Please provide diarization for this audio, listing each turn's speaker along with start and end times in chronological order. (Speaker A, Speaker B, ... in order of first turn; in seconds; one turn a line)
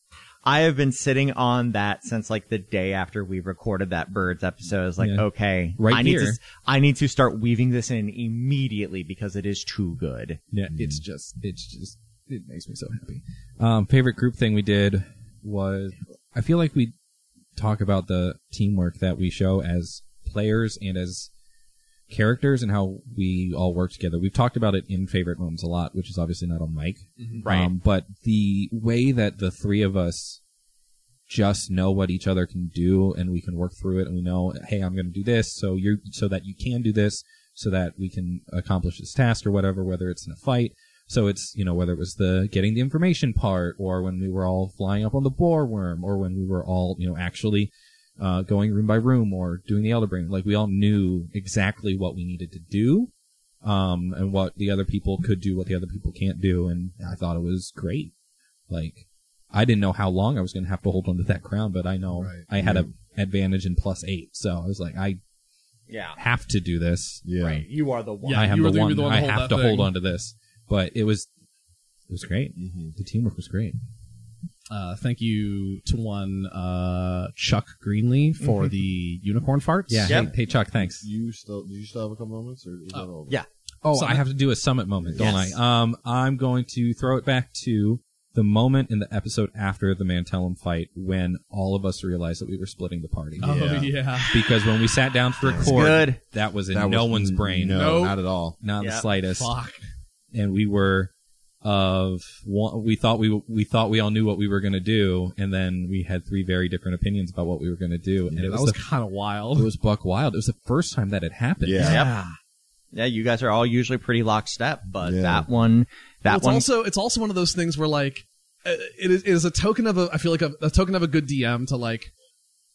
Speaker A: 0.4-10.4
Speaker B: 5.0-5.2
Speaker B: 5.8-6.4
Speaker B: 10.5-16.9
Speaker C: 10.7-11.0
Speaker B: 17.6-21.3
Speaker B: 22.1-30.4
Speaker A: 27.4-27.7
Speaker B: 31.3-53.1
Speaker B: 53.6-58.1
Speaker B: 58.7-65.2
Speaker C: 62.5-62.9
Speaker A: 65.9-66.2
Speaker B: 66.2-67.2
Speaker C: 67.2-67.6
Speaker A: 67.3-68.5
Speaker D: 68.2-69.9
Speaker B: 68.3-71.3
Speaker B: 72.1-73.8
Speaker C: 72.5-72.9
Speaker D: 74.7-80.2
Speaker A: 78.4-78.7
Speaker B: 79.9-81.0
Speaker A: 80.1-80.3
Speaker C: 80.1-83.4
Speaker B: 83.8-98.0
Speaker D: 83.9-84.2
Speaker C: 85.0-85.4
Speaker A: 85.2-85.6
Speaker C: 93.4-93.9
Speaker D: 93.4-94.7
Speaker C: 95.4-95.9
Speaker A: 95.5-96.2
Speaker C: 96.7-98.6
Speaker D: 97.7-98.2
Speaker B: 98.6-99.5
Speaker A: 98.8-99.0
Speaker D: 99.2-99.8
Speaker B: 100.3-101.1
Speaker B: 101.6-108.8
Speaker D: 108.4-109.7
Speaker B: 109.5-111.9
Speaker C: 111.6-112.0
Speaker D: 111.8-112.3
Speaker A: 111.8-112.1
Speaker A: 112.9-116.7
Speaker C: 115.0-115.5
Speaker D: 116.3-122.1